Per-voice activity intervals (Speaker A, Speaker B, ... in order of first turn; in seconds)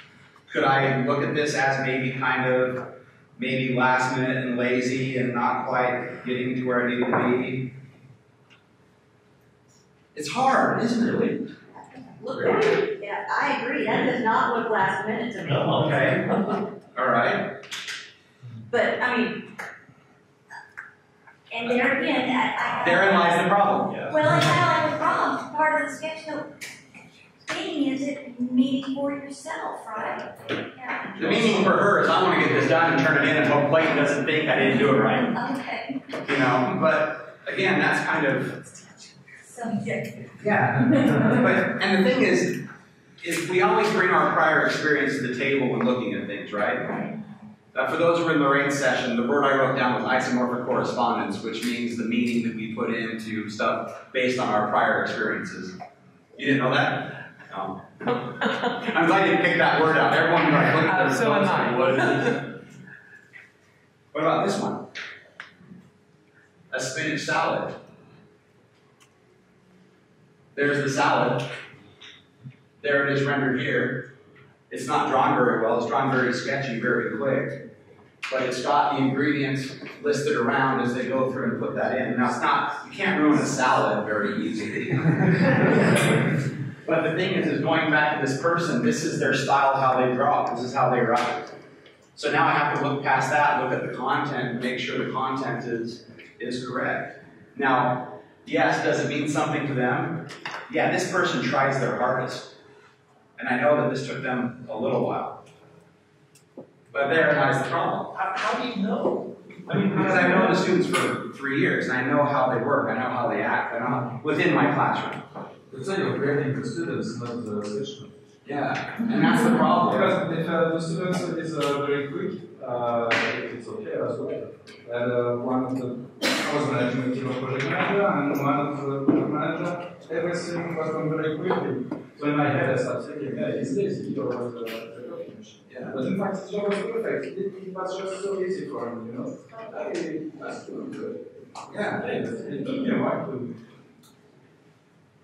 Speaker A: 0.5-7.7, 10.2-11.5, 15.7-16.3, 16.9-17.6, 22.8-24.0, 31.2-35.3, 36.2-38.6, 40.4-42.6, 43.2-46.9, 47.7-55.8, 56.4-62.5, 64.1-64.9, 66.7-67.8, 70.5-71.5, 72.8-74.1, 74.7-77.6, 78.3-85.9, 86.8-91.5, 92.2-102.5, 103.4-105.4, 106.9-108.2, 109.9-115.3, 118.5-120.1, 135.7-136.0, 141.7-142.2
Speaker B: 12.2-16.0, 18.7-19.5, 21.5-23.5, 24.1-26.6, 27.4-31.2, 35.3-36.1, 39.5-40.2
Speaker C: 12.3-12.6, 15.5-16.0, 23.9-24.3, 31.2-31.6, 108.6-108.8
Speaker D: 109.7-110.5, 115.7-118.1, 119.8-141.3, 141.9-143.6